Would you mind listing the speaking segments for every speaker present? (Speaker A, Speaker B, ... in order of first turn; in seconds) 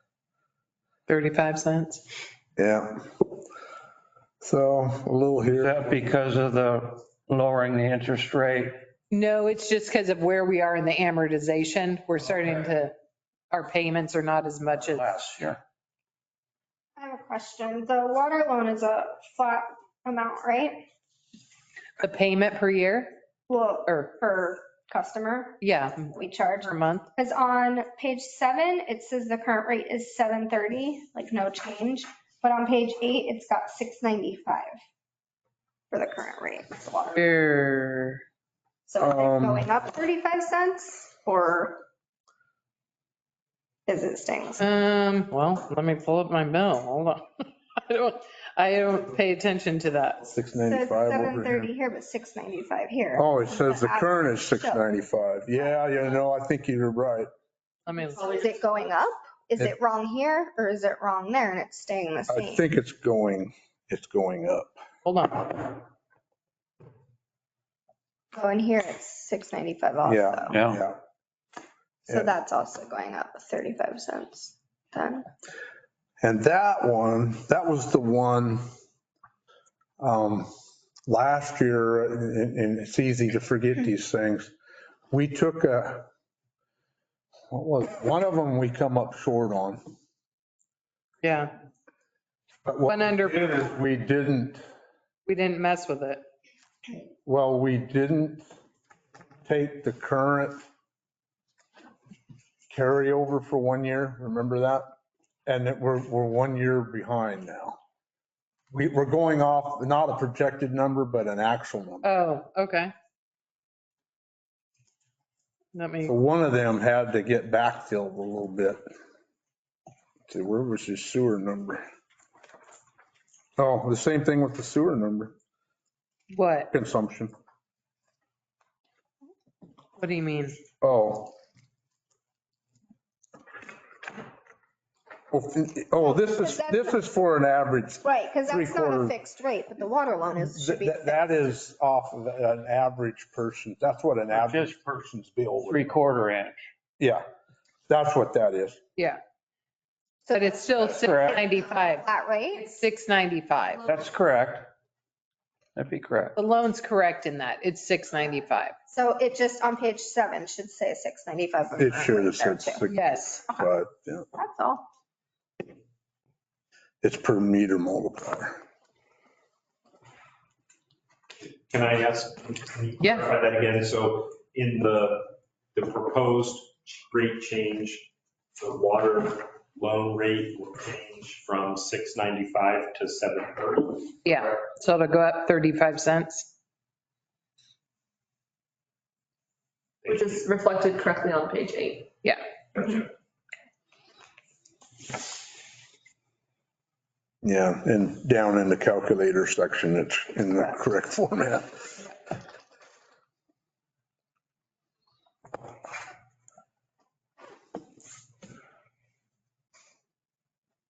Speaker A: 1.1-2.0, 9.1-12.9, 13.5-15.1, 22.0-23.2, 23.9-24.1, 25.6-27.1, 37.1-38.2, 44.6-50.3, 57.9-58.4, 65.0-65.7, 91.2-91.5, 92.9-93.5, 95.3-96.2, 112.0-112.9, 115.7-116.1, 126.3-126.7, 130.0-130.6, 150.3-153.9, 156.4-158.8, 162.9-163.4, 173.0-173.3, 184.2-186.5
Speaker B: 2.6-3.0, 4.4-5.8, 39.0-39.7, 50.3-51.7, 53.2-57.3, 62.3-64.8, 70.0-71.0, 76.2-78.6, 80.0-80.5, 81.1-84.5, 85.1-86.1, 87.5-89.8, 92.7-94.6, 97.3-98.5, 99.5-100.6, 102.7-104.8, 105.5-107.8, 108.7-112.1, 116.0-118.8, 120.3-121.8, 123.6-125.3, 126.7-127.3, 130.8-131.3, 135.3-139.1, 140.4-145.8, 147.9-148.8, 161.8-164.3, 167.0-168.6, 197.4-201.7
Speaker C: 5.6-8.8, 14.9-15.6, 70.5-70.8, 144.3-144.8, 145.7-146.7, 151.0-151.4, 153.8-154.7, 155.8-156.4
Speaker D: 17.0-20.8, 23.5-25.6, 26.1-34.8, 35.9-37.2, 38.9-41.8, 43.9-44.6, 50.6-54.9, 55.5-55.8, 58.4-62.6, 68.3-70.6, 72.1-75.3, 136.0-137.1, 138.0-141.6, 150.3-152.7, 158.9-162.8, 164.3-164.8
Speaker E: 58.0-59.0, 190.1-192.1
Speaker F: 171.7-184.2, 190.0-190.4